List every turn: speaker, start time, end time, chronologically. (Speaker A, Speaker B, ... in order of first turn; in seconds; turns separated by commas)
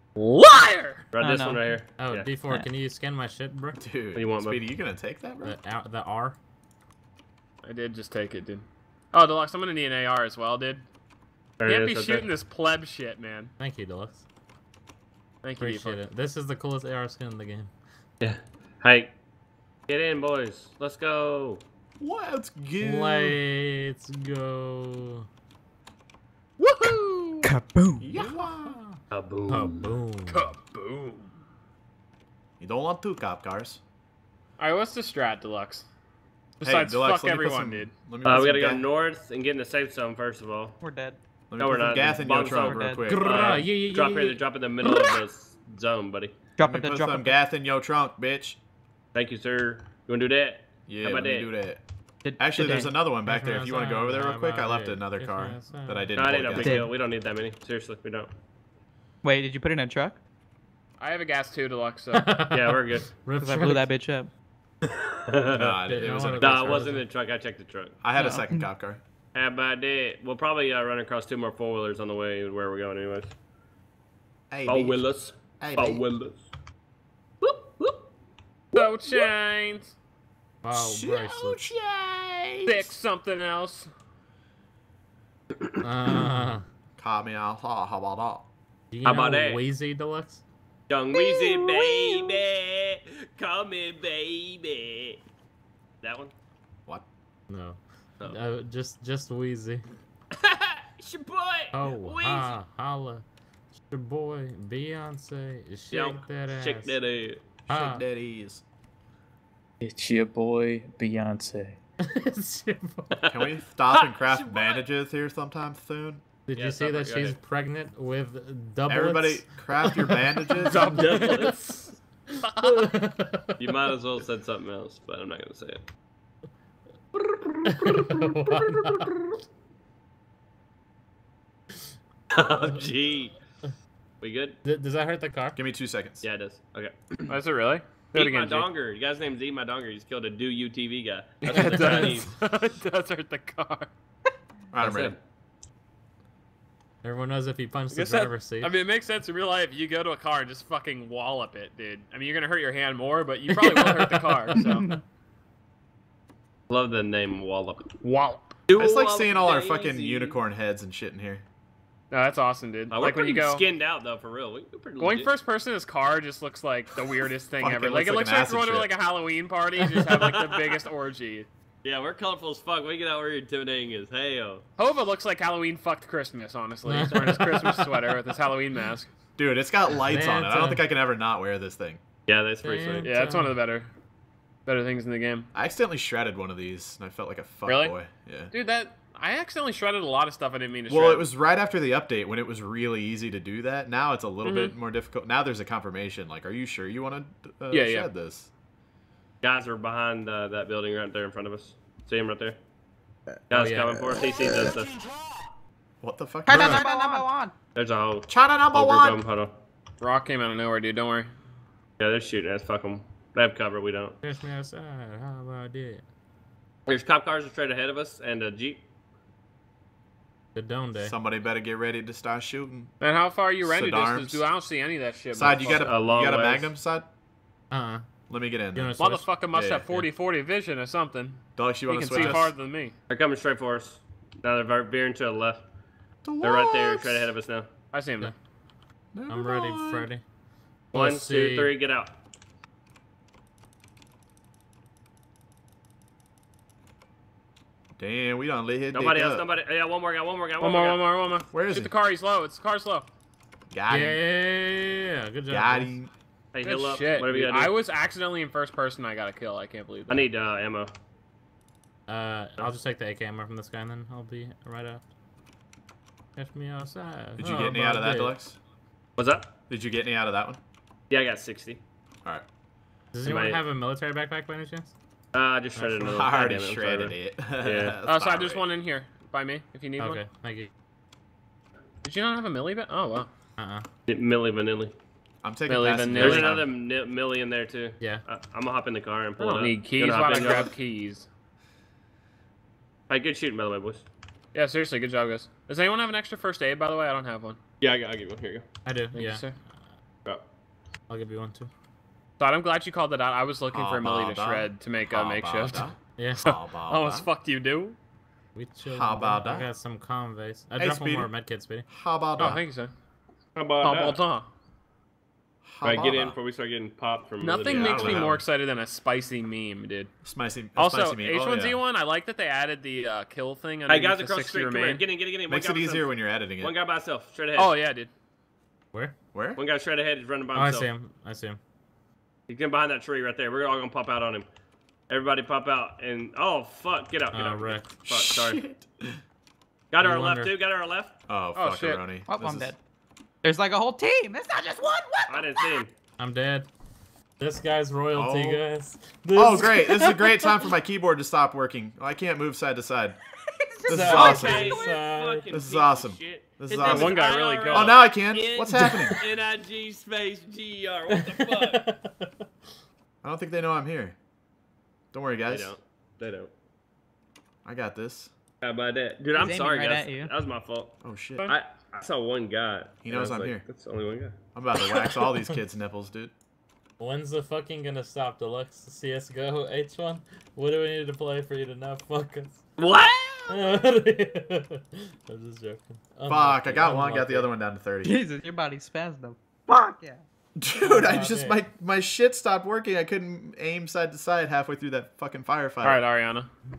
Speaker A: 0.2-1.1, Speaker B: 1.1-2.3, Speaker C: 1.2-1.8, Speaker D: 2.0-3.8, Speaker E: 3.8-5.6, Speaker B: 4.2-4.7, Speaker D: 5.4-6.4, Speaker A: 7.6-10.8, Speaker B: 11.6-12.3, Speaker A: 11.7-13.5, Speaker D: 13.6-14.2, Speaker A: 15.4-16.0, Speaker D: 15.6-17.7, Speaker B: 18.2-19.1, Speaker B: 19.9-21.6, Speaker E: 22.0-23.4, Speaker D: 22.8-25.3, Speaker A: 26.8-27.2, Speaker C: 27.4-28.1, Speaker E: 28.0-28.8, Speaker D: 28.2-30.4, Speaker B: 29.1-29.9, Speaker A: 30.3-31.3, Speaker E: 32.6-33.8, Speaker A: 34.6-35.9, Speaker A: 36.6-37.9, Speaker E: 36.6-38.9, Speaker B: 38.2-40.8, Speaker C: 40.8-41.2, Speaker E: 41.5-43.3, Speaker B: 41.6-46.3, Speaker C: 42.0-43.4, Speaker D: 42.9-44.4, Speaker C: 46.6-47.4, Speaker E: 46.6-48.6, Speaker B: 49.1-51.5, Speaker E: 50.9-51.8, Speaker C: 52.2-53.0, Speaker E: 52.4-56.9, Speaker D: 53.2-56.1, Speaker B: 56.2-58.3, Speaker C: 56.6-56.9, Speaker C: 59.2-60.2, Speaker A: 61.0-62.3, Speaker D: 62.1-63.9, Speaker B: 62.5-63.1, Speaker C: 63.4-64.3, Speaker B: 65.1-65.8, Speaker E: 65.5-66.8, Speaker D: 65.9-67.1, Speaker B: 66.4-68.0, Speaker E: 68.0-69.0, Speaker C: 68.2-68.7, Speaker B: 69.3-73.3, Speaker E: 74.5-75.0, Speaker B: 74.7-76.4, Speaker E: 75.6-76.0, Speaker B: 77.4-78.0, Speaker B: 78.7-79.3, Speaker A: 78.7-79.9, Speaker D: 80.6-81.7, Speaker E: 80.7-82.9, Speaker A: 82.7-83.9, Speaker D: 85.8-86.6, Speaker E: 87.0-88.5, Speaker D: 88.9-90.4, Speaker B: 89.0-89.6, Speaker B: 90.9-95.2, Speaker B: 96.0-96.3, Speaker D: 97.5-99.8, Speaker B: 100.4-102.6, Speaker D: 101.7-103.2, Speaker D: 103.8-107.0, Speaker B: 105.9-107.4, Speaker E: 107.7-108.6, Speaker D: 107.7-108.1, Speaker F: 109.8-111.8, Speaker D: 112.0-113.2, Speaker B: 113.2-114.8, Speaker E: 113.3-116.2, Speaker D: 116.5-120.2, Speaker B: 116.5-117.4, Speaker E: 118.9-120.9, Speaker A: 120.7-122.8, Speaker B: 120.8-121.6, Speaker D: 120.9-121.2, Speaker D: 122.6-123.7, Speaker B: 123.6-125.8, Speaker D: 127.7-129.1, Speaker B: 132.3-133.3, Speaker B: 134.2-134.6, Speaker D: 134.7-135.6, Speaker E: 135.6-136.3, Speaker B: 136.2-136.9, Speaker A: 137.3-138.7, Speaker B: 138.1-142.3, Speaker A: 141.4-143.9, Speaker E: 144.7-145.2, Speaker B: 144.8-145.2, Speaker D: 147.0-148.7, Speaker A: 147.9-154.9, Speaker D: 153.7-154.1, Speaker B: 156.7-157.9, Speaker A: 158.0-158.5, Speaker B: 158.7-160.4, Speaker E: 158.8-161.4, Speaker A: 162.1-163.6, Speaker B: 162.9-165.3, Speaker A: 165.0-171.5, Speaker E: 167.6-168.9, Speaker B: 170.2-170.6, Speaker B: 171.8-174.6, Speaker A: 174.8-179.1, Speaker D: 176.9-177.9, Speaker E: 179.4-182.0, Speaker D: 180.0-180.8, Speaker B: 182.3-183.1, Speaker D: 182.6-183.6, Speaker A: 183.0-183.9, Speaker A: 184.7-185.5, Speaker E: 185.6-188.5, Speaker A: 187.7-187.9, Speaker A: 188.5-191.3, Speaker E: 190.9-198.5, Speaker A: 194.4-194.7, Speaker A: 197.7-198.1, Speaker B: 199.4-202.6, Speaker B: 203.5-204.9, Speaker D: 203.5-204.1, Speaker E: 206.0-206.8, Speaker C: 206.5-207.5, Speaker D: 206.5-206.9, Speaker B: 207.8-209.5, Speaker E: 208.3-209.2, Speaker A: 210.0-211.3, Speaker B: 212.0-214.2, Speaker D: 214.2-216.0, Speaker B: 216.9-218.8, Speaker D: 220.6-221.1, Speaker E: 221.0-222.9, Speaker A: 223.0-225.9, Speaker E: 223.6-224.5, Speaker E: 225.3-227.1, Speaker B: 225.7-226.8, Speaker D: 227.7-228.1, Speaker E: 228.3-229.9, Speaker D: 228.7-229.3, Speaker A: 229.0-232.9, Speaker E: 231.6-232.6, Speaker B: 233.1-235.7, Speaker E: 236.2-237.3, Speaker B: 236.4-237.7, Speaker A: 237.9-238.3, Speaker E: 239.2-240.1, Speaker D: 239.3-240.2, Speaker D: 240.9-241.8, Speaker B: 240.9-242.1, Speaker E: 248.0-249.4, Speaker B: 248.9-251.0, Speaker A: 250.6-253.1, Speaker E: 251.5-251.9, Speaker E: 253.7-254.2, Speaker D: 253.9-256.0, Speaker E: 255.5-256.1, Speaker B: 256.5-257.8, Speaker A: 256.6-260.3, Speaker B: 260.1-260.9, Speaker D: 262.1-265.1, Speaker D: 266.4-268.4, Speaker E: 267.4-268.6, Speaker B: 269.2-269.5, Speaker E: 269.7-270.6, Speaker B: 271.1-271.8, Speaker D: 273.1-274.9, Speaker B: 273.2-273.6, Speaker B: 275.3-277.9, Speaker E: 275.9-278.6, Speaker A: 278.1-280.2, Speaker D: 280.0-280.7, Speaker A: 282.0-283.3, Speaker D: 283.6-283.9, Speaker B: 284.1-284.9, Speaker E: 285.4-286.7, Speaker A: 285.7-286.6, Speaker B: 286.1-290.7, Speaker A: 289.4-291.3, Speaker B: 293.1-294.1, Speaker A: 294.5-297.6, Speaker B: 297.8-298.6, Speaker D: 298.9-299.5, Speaker A: 299.1-299.5, Speaker D: 301.1-301.7, Speaker A: 302.4-305.9, Speaker E: 303.7-307.3, Speaker D: 306.2-306.4, Speaker A: 306.5-308.0, Speaker D: 308.6-311.9, Speaker E: 308.9-309.7, Speaker E: 310.8-311.3, Speaker E: 311.9-312.6, Speaker A: 312.4-312.9, Speaker B: 313.6-314.2, Speaker A: 313.8-314.5, Speaker E: 315.6-316.4, Speaker B: 315.8-318.3, Speaker A: 317.4-320.1, Speaker E: 317.7-318.4, Speaker E: 320.2-321.8, Speaker A: 320.8-325.0, Speaker B: 323.9-327.8, Speaker E: 325.5-326.7, Speaker A: 327.6-328.1, Speaker E: 329.3-329.6, Speaker B: 329.6-330.9, Speaker D: 330.5-331.6, Speaker B: 332.5-334.5, Speaker B: 335.1-338.6, Speaker D: 337.3-337.9, Speaker E: 338.1-339.2, Speaker B: 339.9-341.1, Speaker D: 340.0-340.6, Speaker E: 341.3-342.7, Speaker A: 341.6-342.0, Speaker C: 342.3-342.8, Speaker C: 343.4-345.8, Speaker B: 345.3-345.9, Speaker D: 346.2-346.7, Speaker D: 347.4-350.5, Speaker E: 348.1-348.6, Speaker E: 349.4-353.2, Speaker C: 353.6-355.0, Speaker E: 353.9-354.7, Speaker D: 353.9-355.5, Speaker B: 354.0-361.9, Speaker E: 355.5-357.2, Speaker A: 356.7-358.0, Speaker E: 357.7-359.2, Speaker D: 361.1-362.3, Speaker E: 363.2-364.2, Speaker E: 365.1-365.8, Speaker B: 365.5-366.5, Speaker E: 367.6-368.3, Speaker B: 368.6-370.9, Speaker C: 369.4-370.3, Speaker E: 371.0-371.5, Speaker B: 371.5-374.4, Speaker E: 373.0-373.6, Speaker E: 374.6-376.3, Speaker D: 377.0-382.6, Speaker B: 382.8-383.7, Speaker D: 383.5-387.5, Speaker E: 386.3-388.1, Speaker C: 388.0-390.2, Speaker E: 390.6-396.0, Speaker D: 390.8-391.6, Speaker A: 395.8-396.5